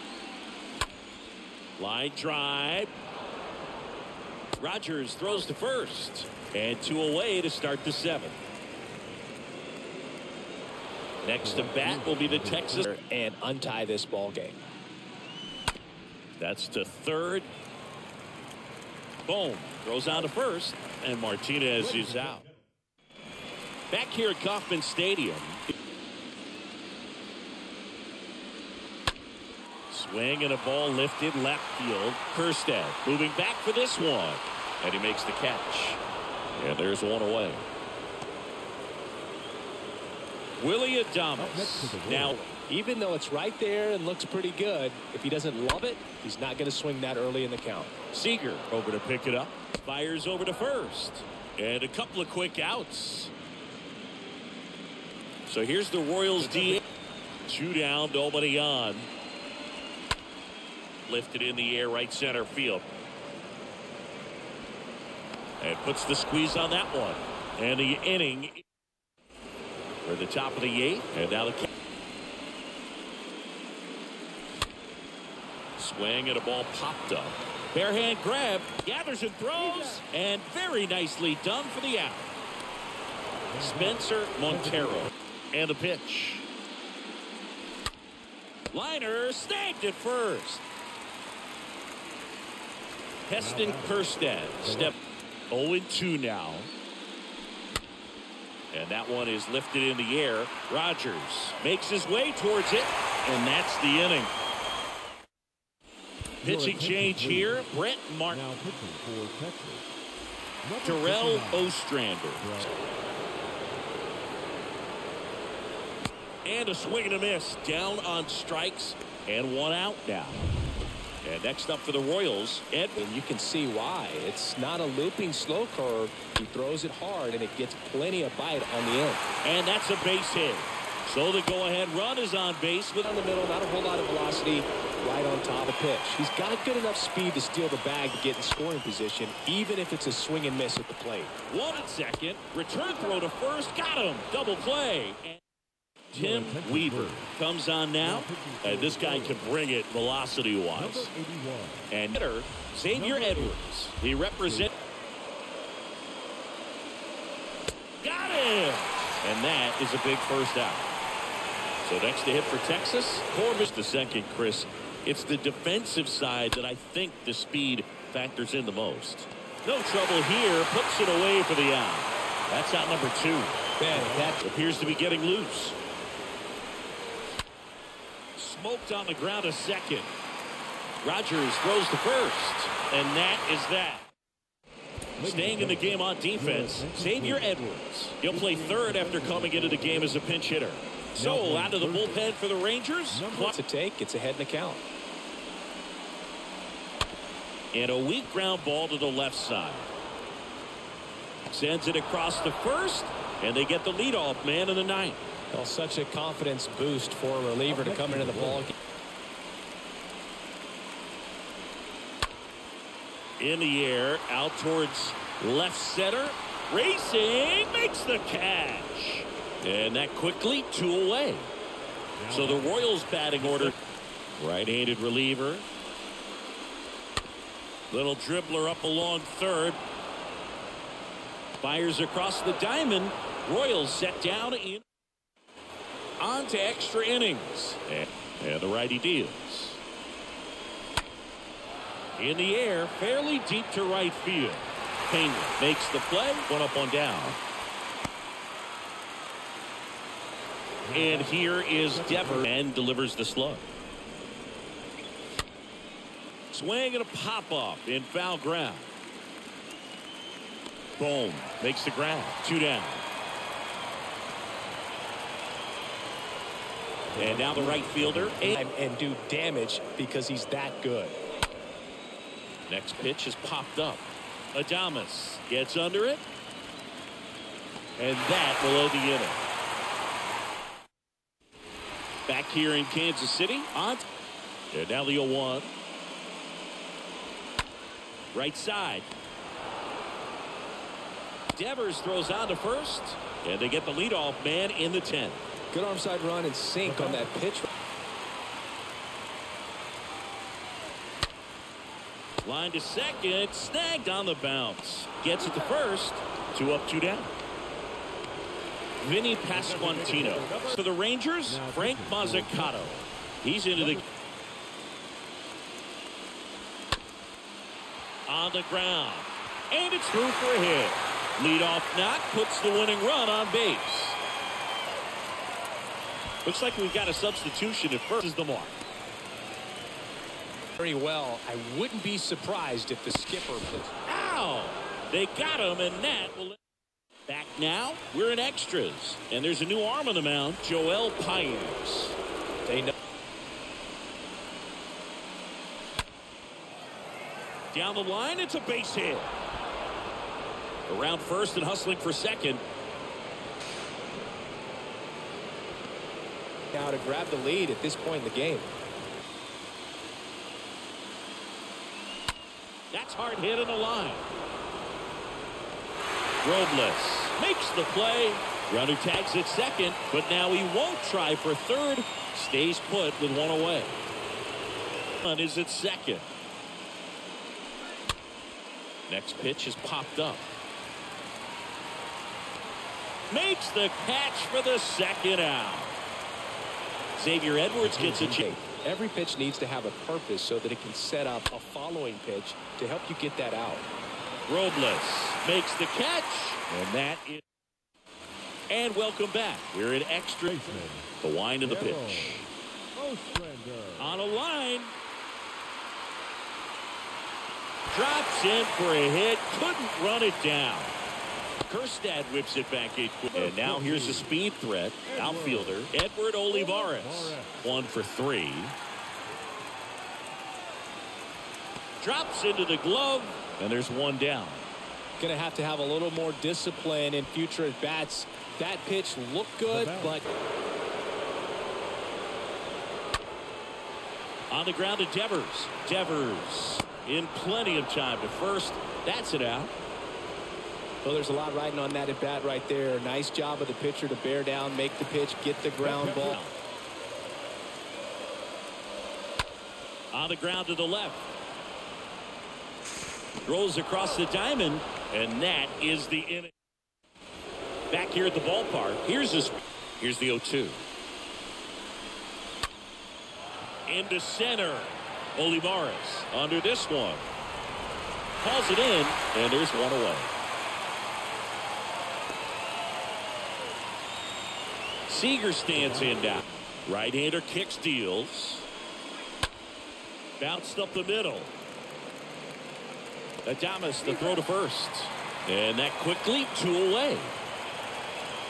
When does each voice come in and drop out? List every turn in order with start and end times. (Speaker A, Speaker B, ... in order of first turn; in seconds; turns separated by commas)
Speaker A: 1.8-2.9, Speaker A: 4.6-8.4, Speaker A: 11.2-12.9, Speaker B: 11.4-12.9, Speaker C: 12.8-14.6, Speaker A: 16.4-17.5, Speaker A: 19.3-22.5, Speaker B: 21.8-22.5, Speaker A: 23.9-25.7, Speaker A: 29.9-36.0, Speaker A: 36.5-37.7, Speaker A: 40.6-42.5, Speaker B: 41.4-42.4, Speaker C: 42.7-47.9, Speaker A: 48.1-53.3, Speaker A: 55.5-56.8, Speaker B: 56.4-56.8, Speaker A: 57.5-59.1, Speaker A: 61.1-62.9, Speaker A: 65.6-68.6, Speaker A: 70.0-71.7, Speaker A: 75.8-82.3, Speaker B: 83.5-85.1, Speaker A: 83.6-86.5, Speaker A: 88.7-90.6, Speaker A: 93.3-95.0, Speaker B: 93.4-95.0, Speaker A: 95.5-96.7, Speaker A: 98.7-104.3, Speaker B: 106.4-107.7, Speaker A: 106.4-108.4, Speaker B: 108.3-109.9, Speaker B: 110.6-111.7, Speaker A: 110.8-112.5, Speaker B: 112.4-112.7, Speaker A: 116.5-120.4, Speaker A: 121.2-123.0, Speaker C: 123.0-129.2, Speaker A: 129.4-133.1, Speaker C: 133.0-141.3, Speaker A: 141.5-145.4, Speaker A: 146.1-151.1, Speaker B: 146.1-147.3, Speaker B: 148.0-149.5, Speaker B: 150.8-151.9, Speaker A: 151.9-154.7, Speaker B: 152.9-153.6, Speaker B: 154.4-154.7, Speaker A: 158.0-160.9, Speaker A: 161.8-173.6, Speaker C: 173.8-174.4, Speaker B: 173.9-174.3, Speaker A: 174.4-175.8, Speaker A: 178.4-180.1, Speaker A: 181.0-184.1, Speaker B: 185.2-187.5, Speaker A: 185.2-193.5, Speaker B: 188.2-190.3, Speaker B: 191.2-192.3, Speaker B: 193.1-193.5, Speaker C: 193.4-194.8, Speaker A: 197.7-199.9, Speaker A: 201.5-205.2, Speaker C: 205.5-208.7, Speaker B: 207.7-208.7, Speaker A: 213.4-221.5, Speaker B: 222.2-223.7, Speaker A: 222.3-223.7, Speaker A: 224.4-225.7, Speaker A: 227.9-229.8, Speaker A: 231.6-234.8, Speaker A: 236.2-239.8, Speaker A: 242.2-247.4, Speaker B: 250.8-252.5, Speaker A: 250.9-253.7, Speaker A: 256.5-258.9, Speaker A: 261.0-263.0, Speaker B: 267.1-268.5, Speaker A: 267.2-268.6, Speaker C: 268.4-271.2, Speaker A: 272.7-276.2, Speaker A: 278.0-279.4, Speaker A: 282.3-284.0, Speaker A: 284.7-285.7, Speaker A: 288.3-289.1, Speaker A: 291.5-295.4, Speaker C: 295.7-297.7, Speaker B: 296.8-297.3, Speaker A: 302.4-307.3, Speaker A: 309.0-314.0, Speaker B: 309.5-310.8, Speaker B: 311.5-313.1, Speaker B: 313.8-314.1, Speaker A: 318.3-324.2, Speaker A: 326.4-328.8, Speaker C: 330.8-333.9, Speaker A: 334.1-336.6, Speaker A: 337.3-342.2, Speaker C: 342.7-342.9, Speaker A: 347.7-349.3, Speaker A: 350.9-352.6, Speaker C: 356.7-358.7, Speaker A: 362.9-364.3, Speaker A: 366.4-374.0, Speaker A: 375.2-376.3, Speaker A: 379.1-380.5, Speaker A: 383.3-386.0, Speaker A: 387.2-388.5, Speaker B: 387.8-388.4, Speaker C: 388.3-393.9, Speaker A: 394.5-397.4, Speaker A: 398.7-402.5, Speaker B: 400.4-401.1, Speaker B: 401.6-404.2, Speaker A: 404.0-404.9, Speaker A: 407.9-410.9, Speaker A: 411.7-418.8, Speaker B: 413.3-414.3, Speaker B: 415.1-415.9, Speaker B: 416.5-417.7, Speaker A: 422.0-424.7, Speaker C: 425.2-430.3, Speaker B: 429.6-430.2, Speaker A: 434.5-439.7, Speaker C: 441.0-446.4, Speaker A: 445.8-446.6, Speaker A: 450.1-451.3, Speaker A: 453.5-456.5, Speaker A: 457.9-460.8, Speaker A: 463.9-467.3, Speaker A: 468.4-470.3, Speaker A: 475.1-478.7, Speaker B: 475.8-476.2, Speaker A: 480.4-481.5, Speaker A: 483.5-487.4